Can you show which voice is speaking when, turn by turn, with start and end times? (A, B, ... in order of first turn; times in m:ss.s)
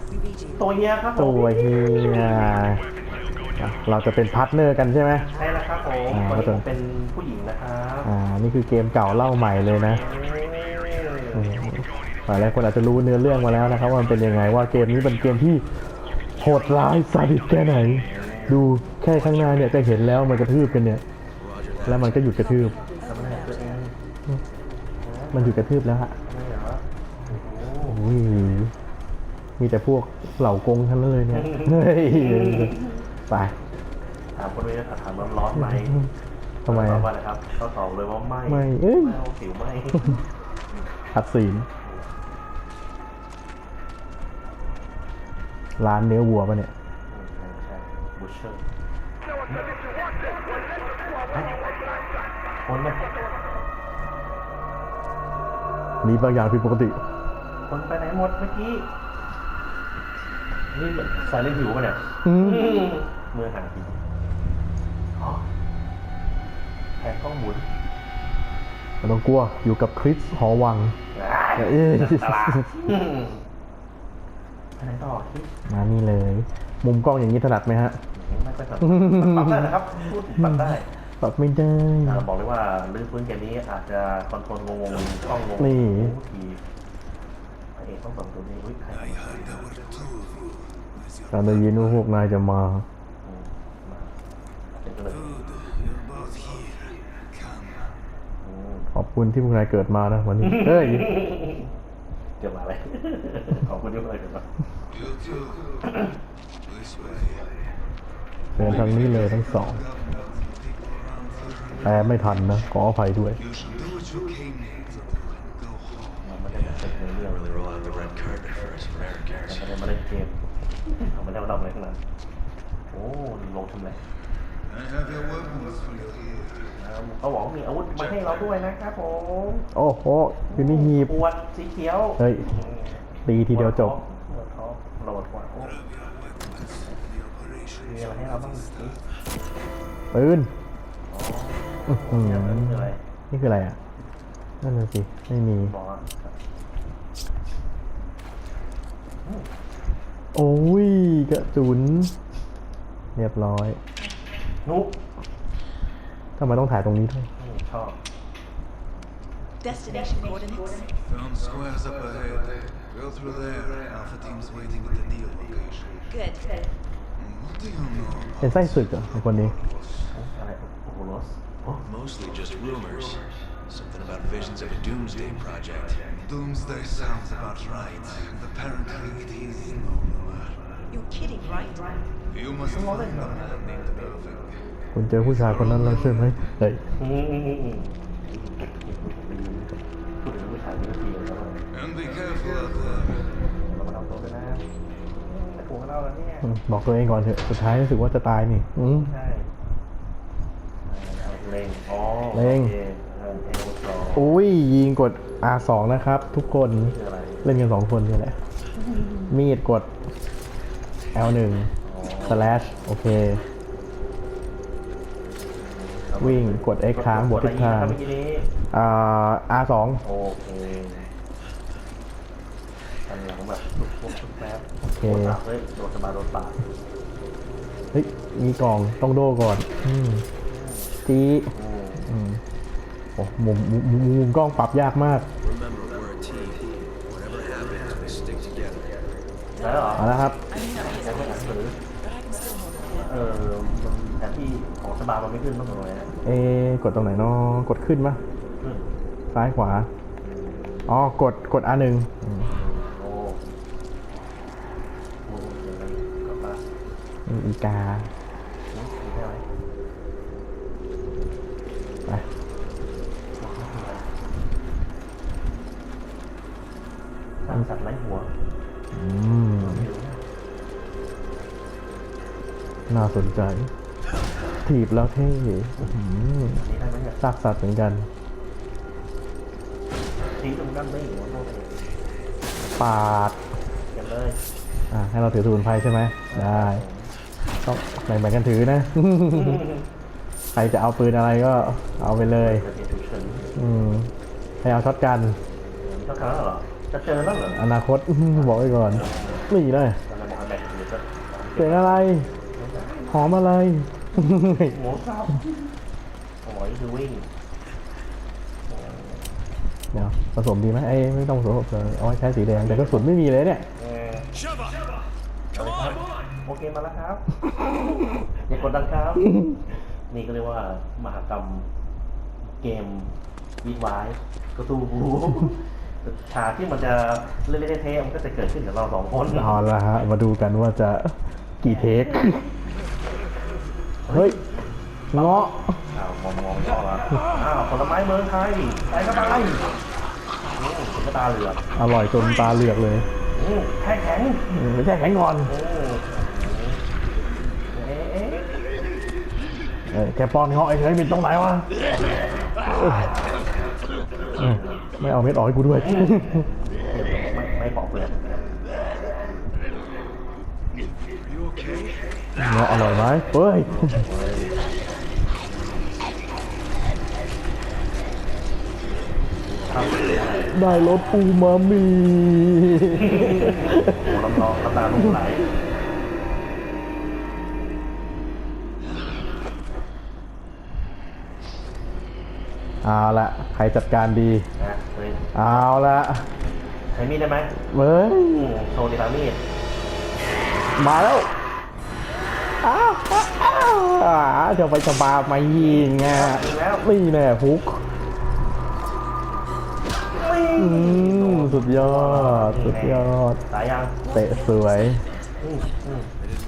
0:00.6-0:02.1 A
0:01.2-0:02.8 B
0:03.6-0:05.2 B
0:05.4-0:08.1 A
0:06.1-0:06.6 B
0:08.0-0:10.0 B
0:09.9-0:11.5 A
0:11.3-0:15.6 B
0:16.4-0:21.0 B
0:18.0-0:18.6 A
0:21.9-0:22.8 B
0:23.0-0:23.9 A
0:25.0-0:28.0 A
0:25.3-0:26.2 B
0:27.9-0:28.7 B
0:29.6-0:32.8 B
0:31.3-0:33.0 A
0:33.3-0:33.5 B
0:34.4-0:36.0 A
0:36.6-0:40.2 A
0:36.7-0:37.1 B
0:38.5-0:39.2 B
0:41.1-0:41.7 B
0:41.8-0:42.1 A
0:45.8-0:46.7 B
0:47.1-0:48.6 A
0:51.3-0:51.6 A
0:52.7-0:53.0 A
0:56.0-0:57.0 B
0:57.7-0:58.9 A
1:00.7-1:04.0 A
1:02.2-1:02.9 B
1:05.2-1:05.4 A
1:07.0-1:07.7 A
1:09.0-1:11.0 B
1:11.1-1:13.4 A
1:11.6-1:12.7 B
1:14.8-1:15.5 A
1:15.7-1:18.0 B
1:18.1-1:20.9 A
1:18.8-1:19.7 B
1:21.2-1:22.3 B
1:22.0-1:26.6 A
1:25.6-1:26.2 B
1:27.8-1:29.8 A
1:29.7-1:30.4 C
1:31.3-1:32.8 B
1:33.2-1:34.2 A
1:34.8-1:35.4 A
1:35.4-1:37.6 C
1:38.4-1:38.9 A
1:38.9-1:41.1 B
1:40.4-1:41.7 A
1:42.4-1:44.5 A
1:45.2-1:45.6 C
1:45.8-1:46.2 A
1:46.8-1:47.4 C
1:48.6-1:49.8 B
1:50.0-1:51.6 C
1:51.8-1:53.4 B
1:53.6-1:56.0 C
1:56.2-1:58.6 A
1:59.4-2:00.4 A
2:01.1-2:02.0 A
2:02.9-2:04.0 A
2:04.8-2:06.5 C
2:06.7-2:09.7 A
2:09.8-2:11.2 B
2:10.5-2:15.8 A
2:12.2-2:12.5 B
2:13.2-2:14.0 B
2:16.5-2:17.0 A
2:17.8-2:19.0 A
2:20.1-2:20.5 B
2:21.1-2:23.0 A
2:21.9-2:23.8 B
2:24.6-2:25.7 B
2:25.6-2:26.4 A
2:29.2-2:29.5 A
2:30.4-2:32.1 B
2:33.2-2:33.8 B
2:34.6-2:35.0 A
2:36.4-2:37.3 B
2:37.4-2:38.0 A
2:39.7-2:40.3 A
2:40.1-2:40.8 D
2:41.3-2:42.4 C
2:43.2-2:45.7 C
2:46.1-2:46.4 D
2:47.4-2:48.3 C
2:48.4-2:49.6 B
2:50.1-2:51.9 A
2:52.3-2:53.2 E
2:53.8-2:55.6 E
2:56.5-3:00.4 C
3:00.9-3:01.9 D
3:02.7-3:03.7 A
3:03.6-3:04.3 C
3:05.0-3:06.8 B
3:07.0-3:11.6 A
3:11.8-3:13.1 C
3:13.6-3:14.6 A
3:15.1-3:16.5 A
3:16.4-3:19.1 B
3:18.9-3:19.5 A
3:20.9-3:24.3 A
3:22.3-3:22.7 B
3:24.2-3:28.4 B
3:26.8-3:27.5 A
3:28.8-3:29.3 A
3:29.3-3:29.9 B
3:31.2-3:31.7 B
3:31.8-3:32.9 A
3:32.3-3:33.4 B
3:35.6-3:38.5 A
3:36.2-3:38.0 B
3:38.7-3:40.0 B
3:40.0-3:41.1 A
3:43.1-3:46.6 A
3:44.8-3:45.4 B
3:47.9-3:50.2 B
3:50.5-3:51.0 A
3:51.1-3:51.5 B
3:51.5-3:52.1 A
3:52.1-3:52.4 B
3:53.2-3:55.3 B
3:56.2-3:56.6 E
3:57.3-3:58.6 E
3:59.6-4:01.8 A
4:00.0-4:00.4 B
4:02.3-4:02.6 D
4:02.9-4:06.1 A
4:06.2-4:08.2 B
4:08.6-4:08.9 A
4:09.3-4:09.9 B
4:10.2-4:10.9 A
4:10.9-4:12.5 B
4:12.4-4:13.4 A
4:15.3-4:16.6 A
4:17.3-4:18.1 B
4:18.7-4:19.4 A
4:23.4-4:24.1 A
4:27.4-4:28.3 A
4:28.9-4:29.9 B
4:29.6-4:30.2 A
4:32.9-4:33.7 B
4:34.6-4:36.6 B
4:36.6-4:37.2 A
4:37.2-4:38.1 B
4:40.4-4:42.0 A
4:42.8-4:43.4 B
4:43.9-4:44.4 A
4:44.9-4:46.8 B
4:46.3-4:47.1 A
4:47.6-4:49.6 B
4:49.3-4:49.9 A
4:50.6-4:52.6 B
4:52.3-4:53.5 A
4:53.6-4:54.1 B
4:54.6-4:55.4 B
4:55.8-4:57.6 A
4:57.5-5:00.0 B
4:58.3-4:59.5 A
5:00.1-5:03.4 A
5:01.6-5:02.3 B
5:03.1-5:04.8 B
5:04.5-5:05.7 A
5:06.4-5:07.3 A
5:08.7-5:09.3 A
5:09.9-5:13.6 B
5:11.8-5:13.1 A
5:13.8-5:14.3 A
5:15.5-5:17.2 A
5:18.5-5:19.3 A
5:20.1-5:21.7 A
5:22.6-5:29.6 A
5:29.3-5:32.5 B
5:34.1-5:34.4 A
5:34.1-5:34.4 B
5:35.1-5:39.7 A
5:35.1-5:35.8 B
5:40.6-5:41.6 A
5:41.8-5:43.1 B
5:43.4-5:44.5 A
5:44.5-5:45.5 B
5:45.5-5:46.8 A
5:47.7-5:48.5 A
5:49.9-5:51.7 B
5:52.7-5:53.1 B
5:54.4-5:54.8 A
5:54.4-5:56.5 B
5:55.7-5:58.6 A
6:02.4-6:04.0 B
6:03.7-6:04.6 A
6:09.6-6:10.6 A
6:10.5-6:14.2 B
6:12.9-6:15.5 A
6:22.8-6:24.5 B
6:24.6-6:25.9 A
6:25.4-6:26.2 B
6:26.9-6:27.5 A
6:27.7-6:28.5 B
6:28.2-6:29.4 A
6:30.8-6:31.3 B
6:32.6-6:37.8 B
6:35.5-6:36.9 A
6:40.1-6:44.0 A
6:40.6-6:43.4 B
6:44.1-6:45.0 B
6:45.4-6:46.1 A